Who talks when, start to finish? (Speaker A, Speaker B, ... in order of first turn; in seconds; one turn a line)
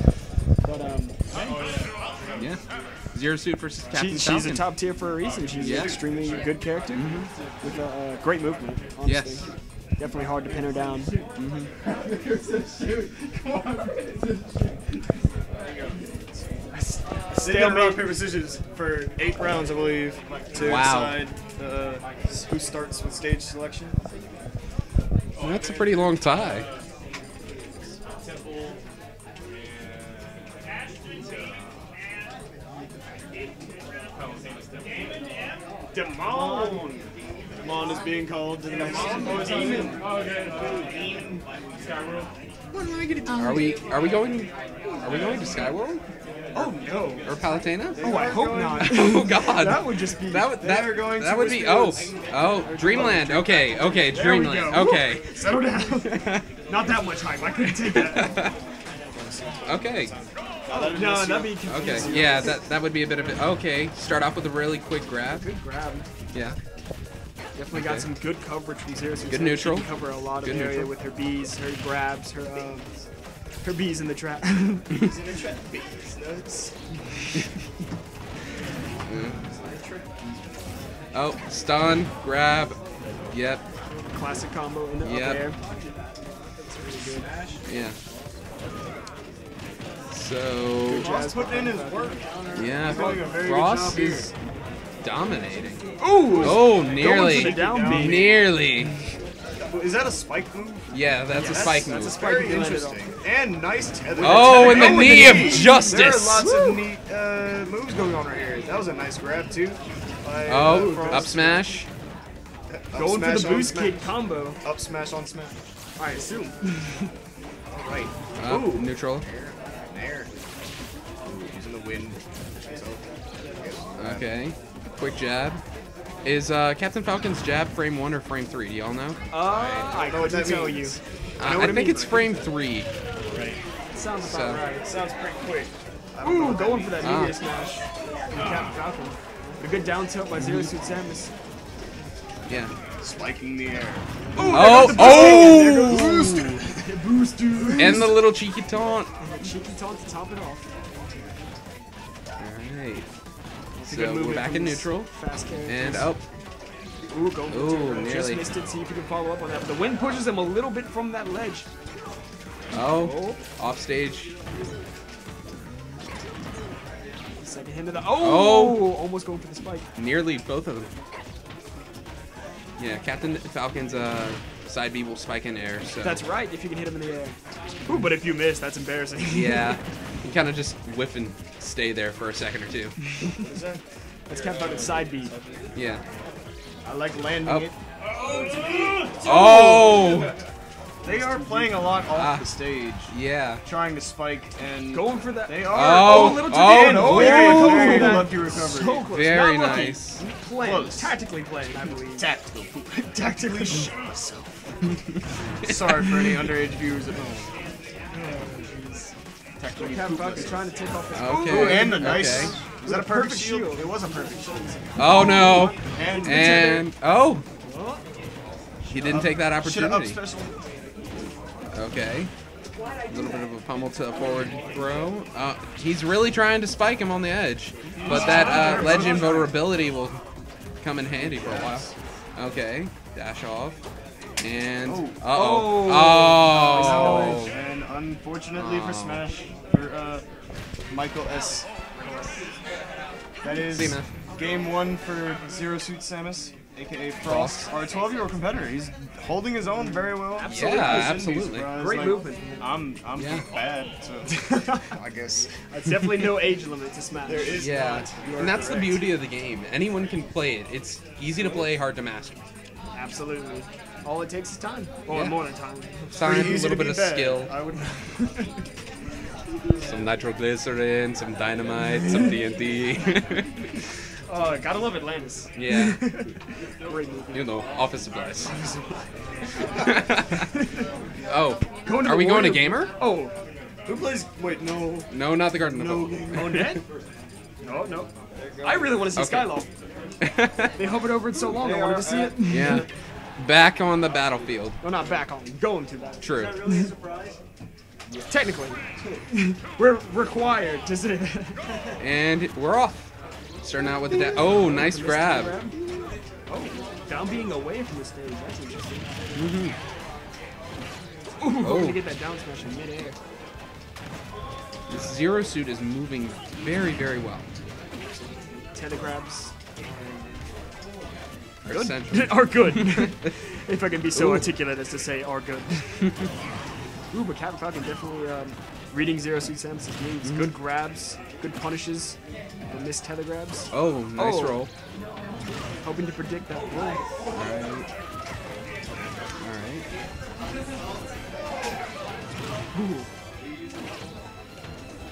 Speaker A: 0.6-1.2
Speaker B: 2.3-2.6
Speaker B: 3.1-4.6
Speaker A: 3.9-11.1
Speaker B: 5.6-6.0
Speaker B: 6.9-7.3
Speaker B: 9.0-9.4
Speaker B: 11.4-11.7
Speaker A: 16.7-18.1
Speaker C: 17.3-24.0
Speaker B: 20.5-21.2
Speaker B: 25.4-26.7
Speaker A: 35.9-36.4
Speaker C: 36.2-37.0
Speaker C: 37.6-40.0
Speaker A: 38.7-40.0
Speaker C: 42.7-43.6
Speaker B: 43.3-46.0
Speaker A: 46.5-47.3
Speaker B: 47.2-48.0
Speaker C: 47.9-49.0
Speaker A: 48.0-50.5
Speaker B: 48.7-55.3
Speaker C: 50.6-52.2
Speaker A: 52.6-53.1
Speaker C: 52.8-53.6
Speaker A: 54.1-58.4
Speaker B: 56.0-56.4
Speaker B: 57.9-58.5
Speaker C: 59.1-62.5
Speaker B: 59.6-60.1
Speaker A: 60.7-62.6
Speaker B: 61.6-65.5
Speaker A: 65.3-66.0
Speaker B: 66.3-66.6
Speaker A: 67.5-72.9
Speaker B: 67.7-68.1
Speaker B: 69.3-70.9
Speaker C: 72.6-72.8
Speaker A: 73.6-75.0
Speaker C: 75.0-76.7
Speaker B: 79.1-79.4
Speaker C: 79.4-80.4
Speaker B: 81.1-82.8
Speaker B: 83.3-83.6
Speaker A: 84.1-85.5
Speaker B: 85.0-85.4
Speaker A: 86.6-87.3
Speaker B: 87.7-88.0
Speaker B: 90.1-91.1
Speaker A: 90.8-92.2
Speaker C: 90.9-94.3
Speaker B: 92.5-94.3
Speaker A: 92.9-93.2
Speaker B: 95.0-98.9
Speaker A: 96.0-98.3
Speaker C: 96.2-98.3
Speaker C: 99.6-111.6
Speaker B: 100.9-102.3
Speaker A: 101.3-103.0
Speaker A: 104.2-106.8
Speaker B: 104.2-106.5
Speaker B: 110.5-111.9
Speaker A: 110.6-111.5
Speaker C: 112.7-114.0
Speaker A: 112.9-114.6
Speaker C: 114.6-115.6
Speaker A: 116.0-117.1
Speaker C: 117.7-120.3
Speaker B: 118.4-119.2
Speaker C: 121.2-124.3
Speaker B: 124.0-125.6
Speaker B: 126.2-130.1
Speaker A: 129.3-132.5
Speaker C: 130.1-131.0
Speaker B: 131.4-132.9
Speaker C: 133.3-133.6
Speaker A: 133.9-134.9
Speaker B: 134.2-134.6
Speaker C: 134.8-137.4
Speaker A: 136.2-141.3
Speaker B: 137.0-137.4
Speaker B: 140.4-140.7
Speaker C: 143.0-146.8
Speaker A: 144.3-146.2
Speaker B: 144.4-146.6
Speaker A: 146.8-148.1
Speaker C: 147.5-148.1
Speaker B: 147.8-149.1
Speaker A: 149.2-150.7
Speaker B: 152.4-153.1
Speaker A: 153.8-156.1
Speaker B: 153.8-155.1
Speaker B: 155.7-156.2
Speaker A: 157.1-161.7
Speaker B: 157.5-158.4
Speaker B: 162.7-164.3
Speaker A: 162.8-163.4
Speaker A: 167.4-169.9
Speaker B: 168.2-168.8
Speaker B: 170.0-170.9
Speaker B: 172.8-176.2
Speaker A: 176.0-177.4
Speaker A: 177.9-179.8
Speaker B: 179.3-183.1
Speaker C: 183.4-183.8
Speaker A: 184.3-185.3
Speaker C: 184.3-185.7
Speaker B: 185.7-186.0
Speaker C: 186.8-187.8
Speaker B: 187.4-187.7
Speaker C: 188.4-189.9
Speaker B: 189.2-190.3
Speaker C: 191.0-193.1
Speaker A: 191.1-191.8
Speaker B: 192.1-193.6
Speaker C: 193.6-199.0
Speaker A: 194.9-202.3
Speaker B: 195.6-198.3
Speaker B: 199.1-200.2
Speaker C: 200.6-201.2
Speaker C: 202.2-204.7
Speaker A: 203.2-203.9
Speaker B: 205.6-206.5
Speaker C: 205.6-207.5
Speaker A: 208.2-209.0
Speaker C: 209.6-210.6
Speaker A: 209.8-213.9
Speaker B: 211.1-212.6
Speaker C: 211.4-214.8
Speaker B: 215.0-217.4
Speaker A: 215.0-216.8
Speaker C: 215.9-216.7
Speaker A: 217.6-218.0
Speaker B: 218.8-220.2
Speaker C: 219.0-220.6
Speaker B: 221.7-222.3
Speaker B: 223.1-230.2
Speaker A: 227.9-229.4
Speaker C: 228.0-229.5
Speaker B: 230.8-233.8
Speaker C: 231.3-231.8
Speaker B: 234.4-237.6
Speaker C: 234.8-235.2
Speaker A: 235.3-237.5
Speaker C: 236.7-240.2
Speaker B: 238.5-239.2
Speaker C: 240.9-241.7
Speaker A: 242.0-242.4
Speaker C: 243.4-255.5
Speaker B: 243.4-244.1
Speaker B: 247.2-247.7
Speaker A: 250.2-252.7
Speaker B: 250.4-251.8
Speaker B: 253.1-253.5
Speaker A: 254.3-254.9
Speaker A: 255.7-257.6
Speaker C: 257.2-259.0
Speaker B: 257.5-262.4
Speaker A: 262.9-266.5
Speaker B: 265.1-265.4
Speaker B: 266.1-267.5
Speaker C: 266.2-268.1
Speaker A: 267.9-268.5
Speaker B: 269.8-273.5
Speaker A: 274.3-277.5
Speaker B: 275.6-276.1
Speaker B: 277.3-278.5
Speaker A: 278.4-279.1
Speaker B: 279.7-280.5
Speaker A: 280.4-280.9
Speaker B: 281.3-282.9
Speaker A: 281.8-283.3
Speaker C: 283.9-285.1
Speaker B: 285.1-286.7
Speaker C: 285.7-286.8
Speaker A: 286.3-286.8
Speaker A: 287.6-288.1
Speaker C: 288.5-288.9
Speaker A: 288.6-289.7
Speaker B: 289.1-289.5
Speaker B: 290.2-290.7
Speaker A: 290.8-292.8
Speaker C: 291.4-292.8
Speaker B: 292.4-294.8
Speaker A: 294.8-296.9
Speaker B: 296.2-296.6
Speaker C: 296.3-297.4
Speaker A: 298.3-301.6
Speaker B: 302.0-303.1
Speaker B: 303.6-305.5
Speaker A: 304.1-305.9
Speaker A: 306.5-309.1
Speaker B: 309.3-309.8
Speaker A: 311.4-313.2
Speaker B: 311.6-312.0
Speaker B: 314.9-317.5
Speaker A: 318.0-320.4
Speaker B: 321.6-323.1
Speaker A: 321.7-326.1
Speaker B: 324.1-324.4
Speaker A: 327.1-332.2
Speaker B: 330.2-330.5
Speaker A: 332.7-334.6
Speaker B: 333.7-334.7
Speaker A: 335.8-337.0
Speaker B: 337.3-337.9
Speaker B: 339.4-339.8
Speaker A: 342.7-343.1